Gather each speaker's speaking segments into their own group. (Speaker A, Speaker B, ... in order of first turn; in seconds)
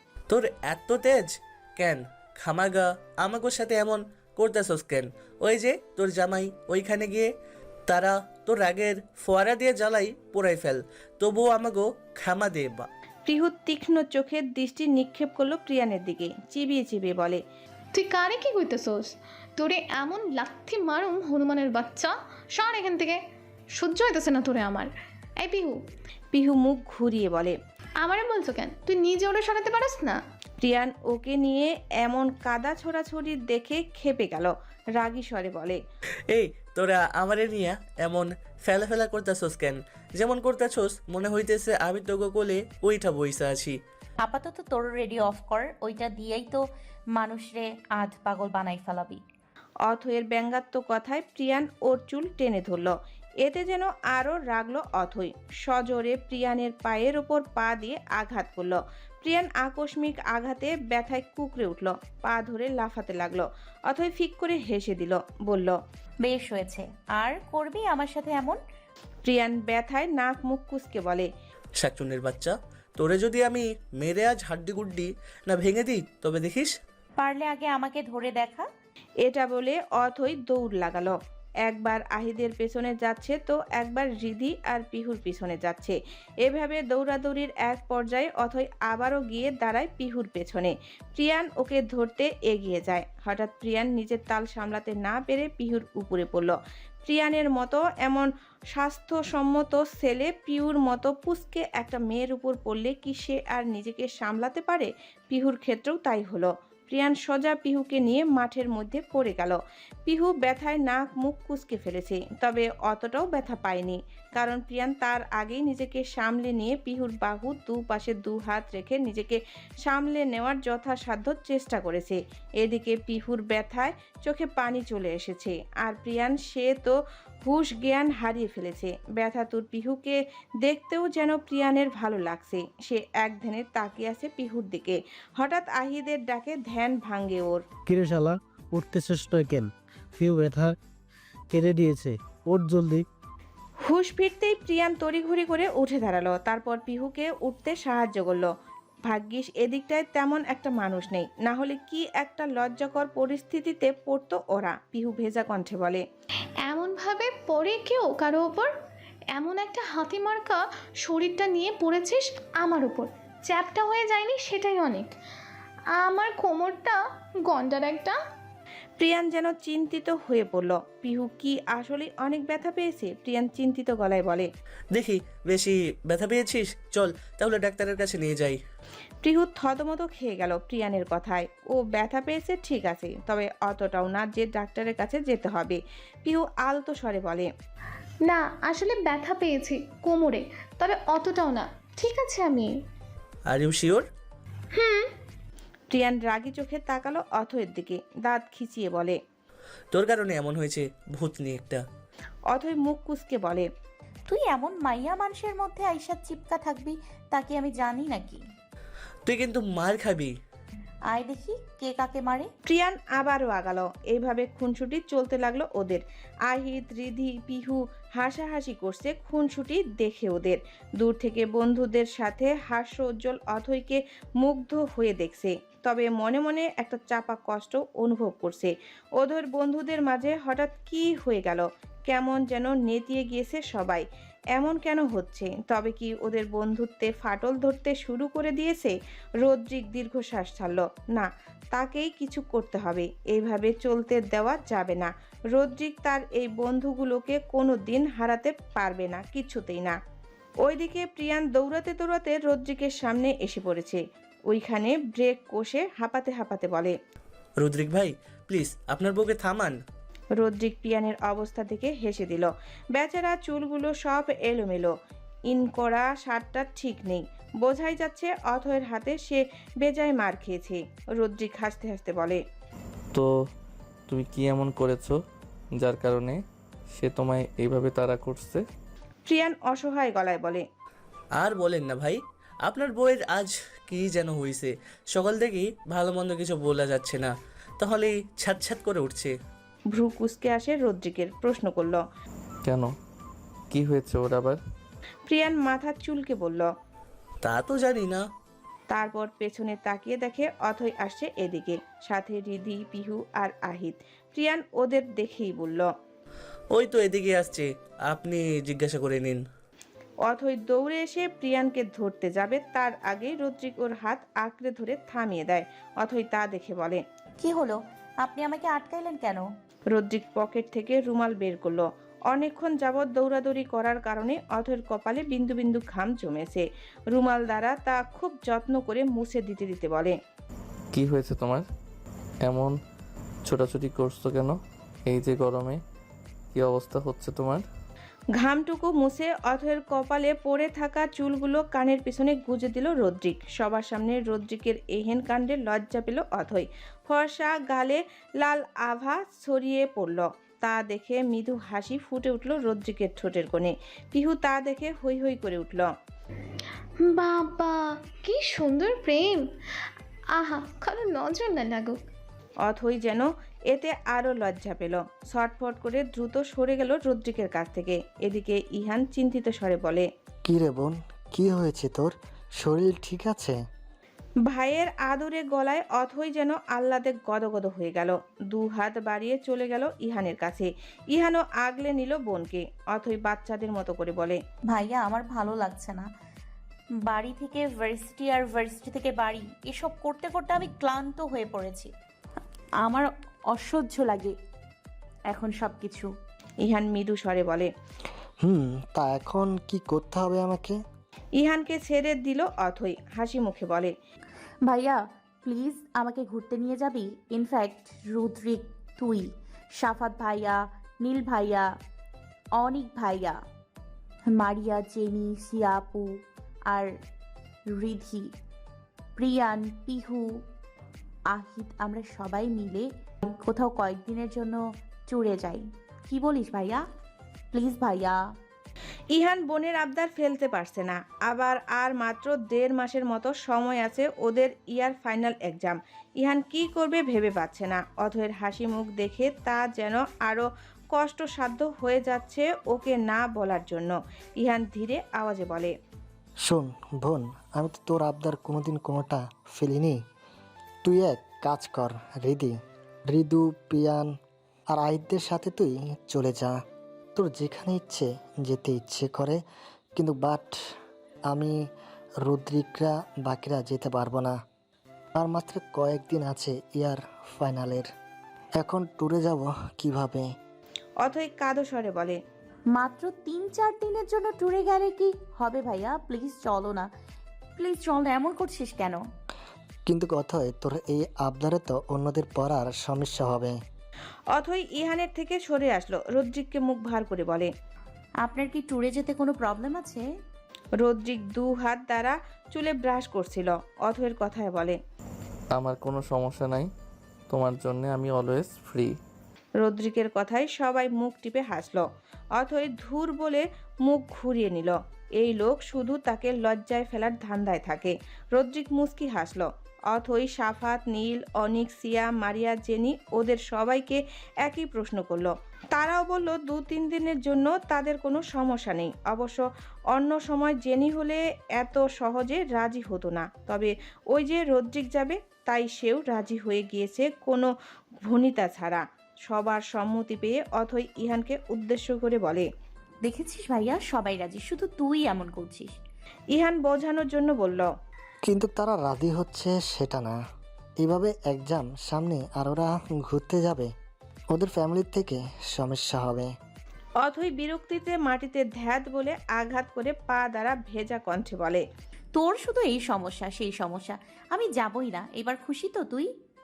Speaker A: 0.3-7.3, 7.9-12.9, 36.3-43.8, 71.8-76.7, 174.9-178.6, 193.5-194.1, 199.9-201.8, 209.2-210.3, 257.6-259.8, 281.4-289.3, 297.4-298.2, 306.7-309.4
Speaker B: 13.3-17.4, 26.3-27.6, 30.6-35.8, 49.9-65.8, 69.2-71.3, 79.2-137.6, 143.8-148.5, 149.1-156.0, 169.0-174.5, 179.2-187.5, 195.9-199.2, 202.5-203.7, 212.7-250.0, 250.6-256.9, 260.4-264.9, 265.5-272.4, 279.3-280.6, 289.9-292.0, 295.3-296.7, 298.9-305.9, 310.2-317.0, 319.9-330.1, 338.4-355.9, 362.6-370.1, 374.5-384.4, 396.6-397.7, 401.4-403.9, 429.1-445.7, 471.0-472.2, 484.3-487.5, 490.8-494.8, 499.6-501.8, 502.4-527.5, 528.0-532.5, 536.3-537.7, 547.0-551.6
Speaker C: 17.9-23.2, 23.8-25.8, 28.0-30.2, 156.7-158.7, 159.3-165.1, 165.9-168.2, 188.2-192.8, 194.7-195.1, 357.0-359.5, 360.3-362.0
Speaker D: 44.2-49.2, 66.2-68.6, 77.2-78.7, 204.3-208.4, 211.1-212.5, 317.4-319.4, 384.7-386.1, 387.0-391.9, 392.8-394.4, 395.3-396.1, 404.6-411.7, 412.6-413.4, 414.3-416.9, 417.7-418.3, 419.2-420.4, 421.3-426.8, 427.5-428.2, 472.7-476.9, 477.6-479.0, 488.2-490.0, 533.0-535.7, 552.1-556.1
Speaker E: 137.9-140.7, 141.5-143.0
Speaker F: 274.1-275.2, 275.8-276.4, 276.9-278.6, 292.6-292.9, 293.7-294.6, 330.9-331.6, 332.4-332.8, 333.4-335.8, 336.5-337.6, 495.5-496.7, 497.3-498.9
Speaker G: 370.5-373.6, 398.4-400.8, 446.5-450.0, 450.8-452.6, 453.1-454.1, 454.7-456.6, 457.2-459.4, 460.0-460.5, 461.3-461.6, 462.2-464.4, 465.2-467.9, 468.6-470.3, 479.9-483.6, 538.3-540.2, 540.8-543.7, 544.3-546.3